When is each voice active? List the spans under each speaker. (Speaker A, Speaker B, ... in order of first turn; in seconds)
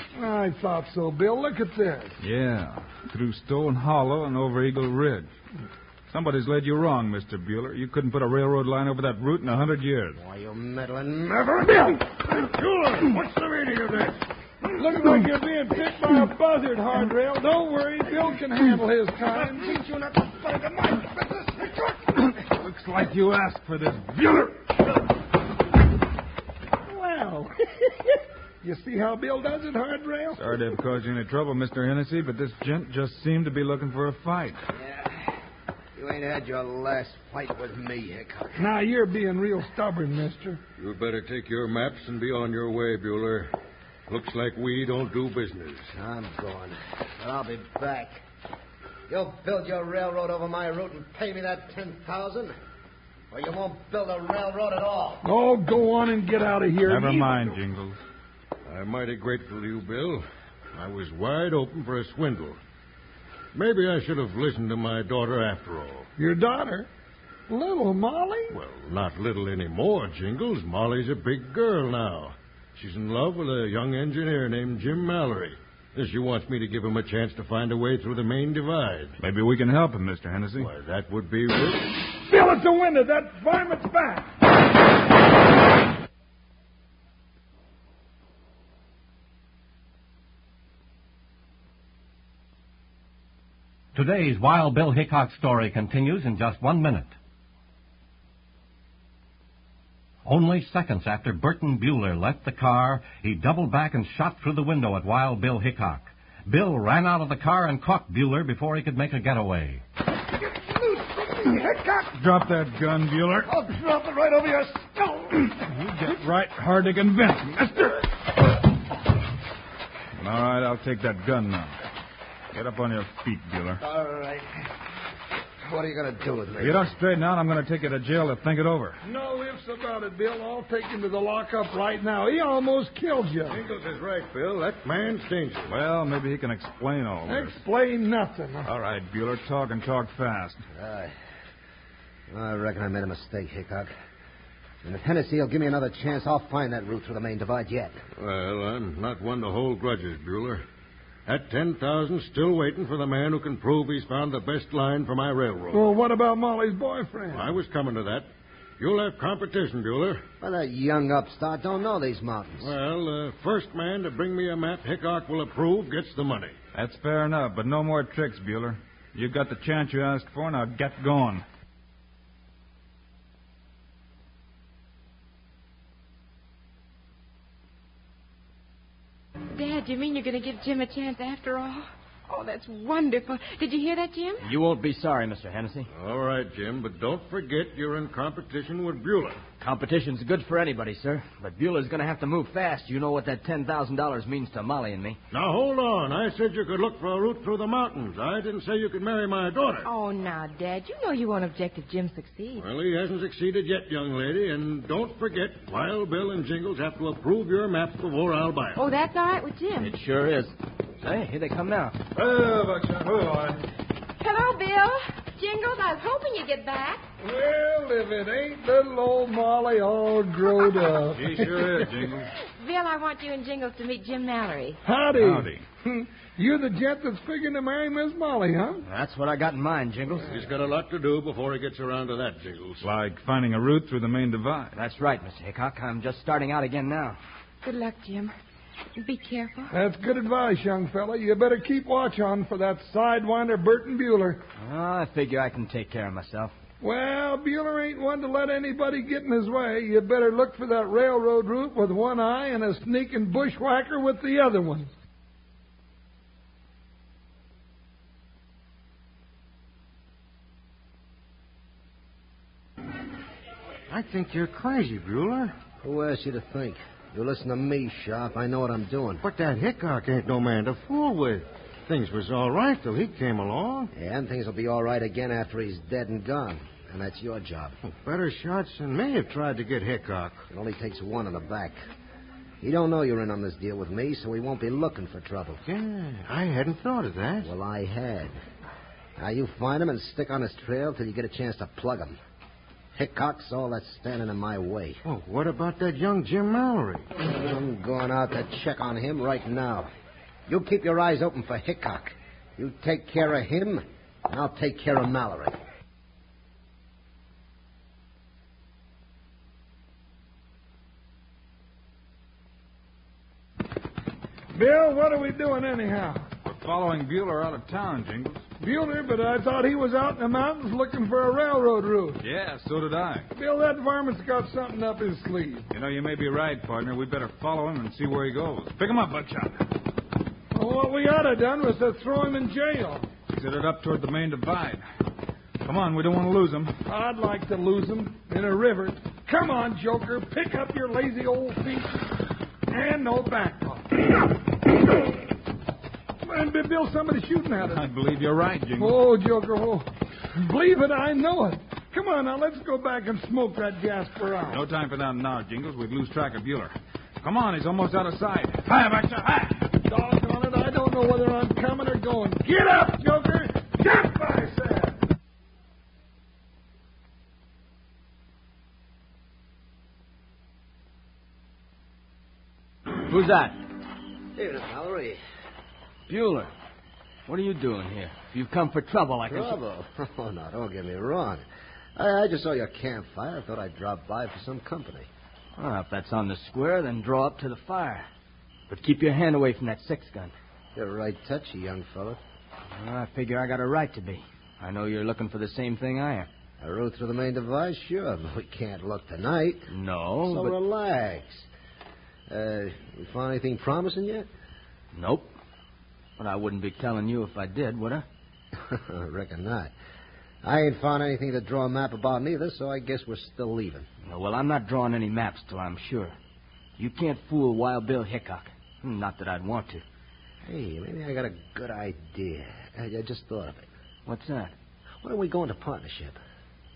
Speaker A: 0.1-2.1, 14.7-19.8, 26.9-30.4, 38.6-40.6, 55.2-57.6, 66.2-66.9, 67.5-68.6, 82.0-84.3, 129.0-133.6, 137.3-138.7, 155.7-157.6, 217.2-222.1, 224.8-228.8, 239.7-244.4, 246.8-254.9, 314.5-316.3, 318.6-322.2, 323.3-325.7, 330.5-333.1, 336.9-342.1, 342.7-344.0, 346.2-347.8, 348.8-354.6, 359.8-365.0
Speaker B: 2.2-5.3, 6.1-10.2, 22.3-24.6, 30.4-34.6, 56.8-58.0, 79.2-80.7, 112.1-113.5, 115.5-118.0, 120.2-121.7, 122.5-123.8, 126.6-129.0, 135.7-137.6, 138.6-140.6, 166.7-171.4, 212.1-213.6, 221.1-222.3, 225.1-225.6, 232.8-234.7, 316.4-318.4, 322.2-323.3, 325.7-329.6, 333.3-334.8, 335.6-336.7, 347.6-349.0, 354.5-359.7
Speaker C: 10.2-12.1, 19.2-22.2, 34.8-35.2, 36.0-38.6, 45.9-48.2, 49.1-52.5, 53.3-55.2, 110.6-112.1, 113.5-115.5, 123.8-124.5, 125.7-126.9, 140.7-141.1, 142.3-143.9, 144.8-148.0, 160.4-162.7, 265.8-269.2, 273.9-277.8, 280.5-281.8, 282.6-285.6, 287.4-288.4, 289.2-292.2, 292.9-295.0, 297.3-299.9, 300.5-305.6, 374.3-375.2, 379.3-381.4, 381.9-385.1, 390.7-392.2, 396.6-399.7, 400.2-401.5, 402.3-404.3, 408.6-409.7, 410.4-413.9, 420.4-423.7, 425.0-426.2
Speaker D: 12.4-14.1, 40.8-43.5, 44.1-45.9, 58.7-62.6, 63.5-66.1, 68.5-79.2, 80.6-81.9, 133.5-135.7, 148.2-150.6, 151.2-155.9, 157.3-160.2, 162.6-166.6, 185.9-189.4, 195.3-199.9, 202.6-208.8, 230.3-232.8, 263.9-265.5, 269.2-273.9, 277.9-280.4, 285.6-287.5, 295.0-297.1
Speaker E: 93.9-97.1, 100.2-109.8
Speaker F: 179.5-184.5, 199.8-202.7, 208.8-209.9, 214.2-217.0, 222.6-224.8, 237.6-238.3, 239.0-239.7
Speaker G: 184.4-185.9, 189.6-195.2, 209.8-212.0, 228.8-230.3, 234.7-237.2, 244.6-246.5, 373.0-373.6, 376.1-376.5, 377.3-379.6, 385.6-388.1, 388.7-390.3, 392.8-396.3, 399.7-400.6, 404.9-405.3, 406.2-408.0, 414.0-416.1, 416.8-419.8, 424.1-424.5